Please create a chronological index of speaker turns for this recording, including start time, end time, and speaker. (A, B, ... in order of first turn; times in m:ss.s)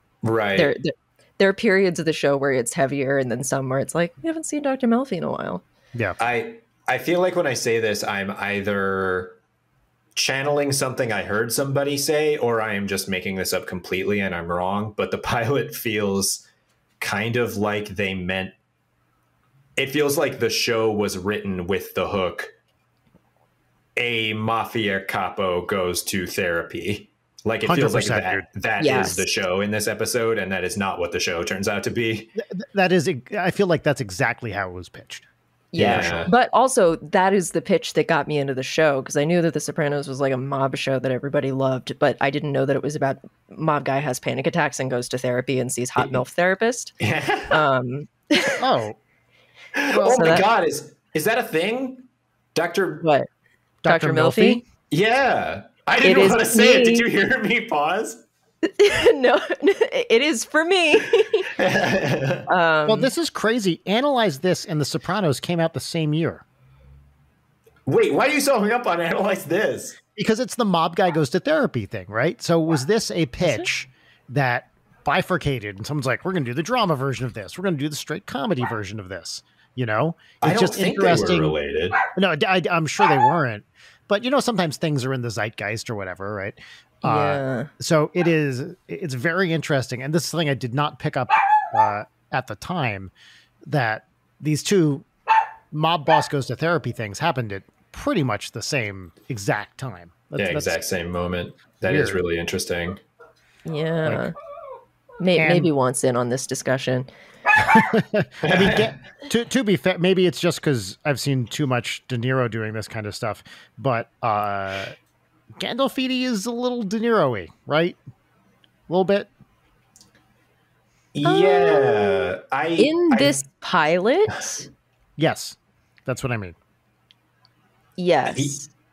0:00.2-0:00.7 A
0:00.6-0:05.6 B
0:06.2-0:09.4 A
0:10.2-0:16.4 A
0:17.0-0:18.5 A
0:19.8-0:22.5 A
0:24.0-0:32.3 A
0:27.6-0:28.4 C
0:28.8-0:29.3 B
0:32.4-0:35.2 C
0:35.7-0:47.0 B
0:35.8-0:36.3 A
0:35.8-0:36.3 C
0:47.0-0:47.6 A
0:47.5-0:48.6 B
0:48.6-0:49.0 C
0:49.8-0:53.1 A
0:49.9-0:50.3 C
0:50.0-0:50.4 B
0:53.0-0:53.3 B
0:53.8-0:54.6 C
0:53.8-0:54.6 B
0:54.9-0:58.2 A
0:56.0-0:57.0 B
0:58.6-1:01.5 B
1:01.5-1:02.5 A
1:02.5-1:03.1 B
1:02.9-1:06.4 C
1:07.8-1:10.0 A
1:10.2-1:21.5 C
1:20.4-1:22.0 A
1:22.1-1:33.1 C
1:27.0-1:27.7 B
1:33.6-1:35.0 C
1:35.7-1:40.8 C
1:40.4-1:43.0 A
1:41.8-1:42.2 C
1:43.6-1:44.3 B
1:45.2-1:47.1 B
1:45.4-1:45.7 C
1:47.6-1:54.9 C
1:48.4-1:48.9 A
1:55.6-1:58.0 C
1:58.9-1:59.3 C
2:01.1-2:03.4 A
2:01.2-2:04.7 B
2:05.2-2:06.6 C
2:08.0-2:08.7 B
2:08.3-2:08.6 A